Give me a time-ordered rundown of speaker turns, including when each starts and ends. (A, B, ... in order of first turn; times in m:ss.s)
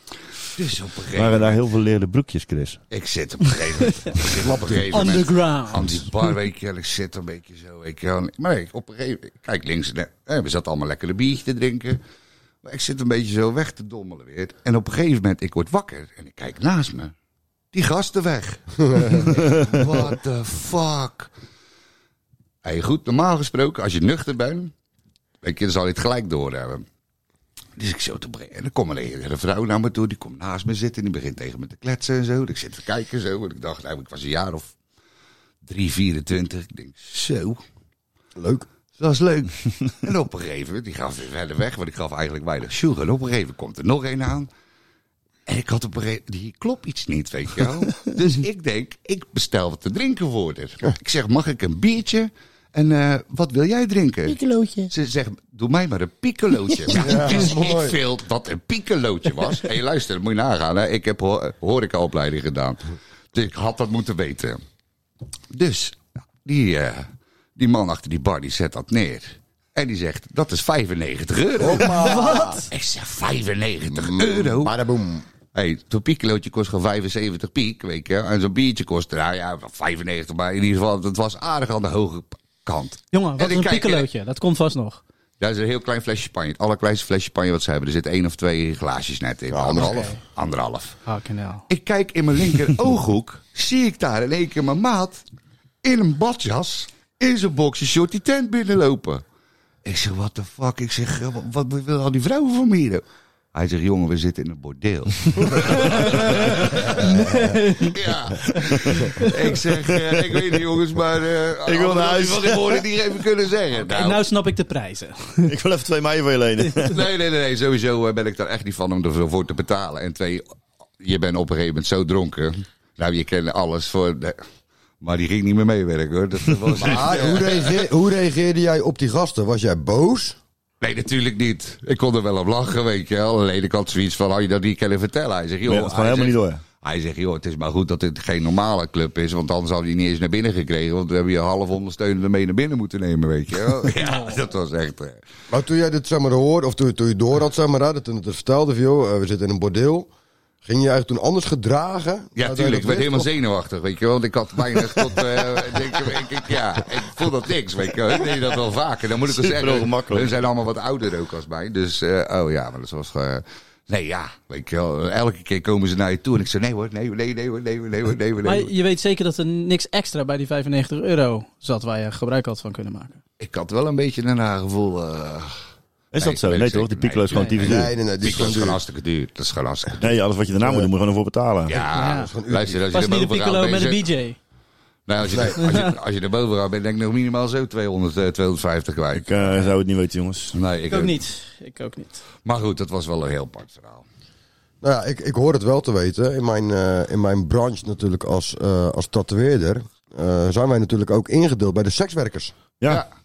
0:00.6-0:01.6 A
0:01.1-0:02.8 B
0:02.9-0:12.0 A
0:03.8-0:04.2 C
0:04.4-0:05.3 D
0:04.9-0:06.1 C
0:12.6-0:17.1 A
0:17.7-0:21.3 A
0:18.9-0:19.2 D
0:22.6-0:24.7 A
0:25.4-0:26.8 A
0:27.8-0:34.7 A
0:35.6-0:37.6 A
0:38.4-0:38.7 D
0:39.0-0:44.5 A
0:45.5-1:02.8 A
0:54.3-0:54.9 B
0:56.9-0:58.0 D
1:03.3-1:04.6 A
1:05.5-1:14.8 A
1:11.6-1:12.6 D
1:11.7-1:12.7 C
1:13.9-1:15.3 D
1:15.5-1:24.1 A
1:23.1-1:25.0 C
1:25.4-1:31.0 A
1:29.5-1:30.1 D
1:29.7-1:30.2 C
1:31.1-1:31.6 C
1:31.7-1:35.2 A
1:35.8-1:39.2 A
1:39.8-1:43.0 A
1:43.5-1:54.2 A
1:45.6-1:48.0 C
1:47.0-1:47.4 D
1:48.5-1:49.1 B
1:48.6-1:49.4 C
1:50.2-1:50.4 B
1:51.6-1:52.8 B
1:53.9-1:55.5 C
1:55.5-1:57.0 B
1:56.6-1:56.9 C
1:56.9-2:00.4 A
2:01.0-2:04.4 A
2:05.0-2:07.8 A
2:06.7-2:10.4 D
2:10.8-2:25.2 A
2:15.7-2:16.6 B
2:25.5-2:30.1 D
2:30.6-2:33.3 D
2:32.4-2:48.7 A
2:39.3-2:40.4 B
2:48.4-2:53.2 C
2:53.4-2:55.6 A
2:56.1-2:57.9 B
2:56.2-3:00.1 A
2:57.3-2:57.6 C
2:57.6-2:58.8 D
3:00.0-3:01.8 B
3:00.6-3:00.9 D
3:01.7-3:04.0 A
3:01.9-3:02.3 C
3:02.1-3:02.8 D
3:02.9-3:04.4 C
3:05.1-3:09.5 A
3:05.2-3:05.7 D
3:05.6-3:06.0 C
3:09.2-3:10.6 B
3:10.5-3:11.2 A
3:10.9-3:12.2 C
3:12.4-3:14.0 A
3:14.8-3:22.5 D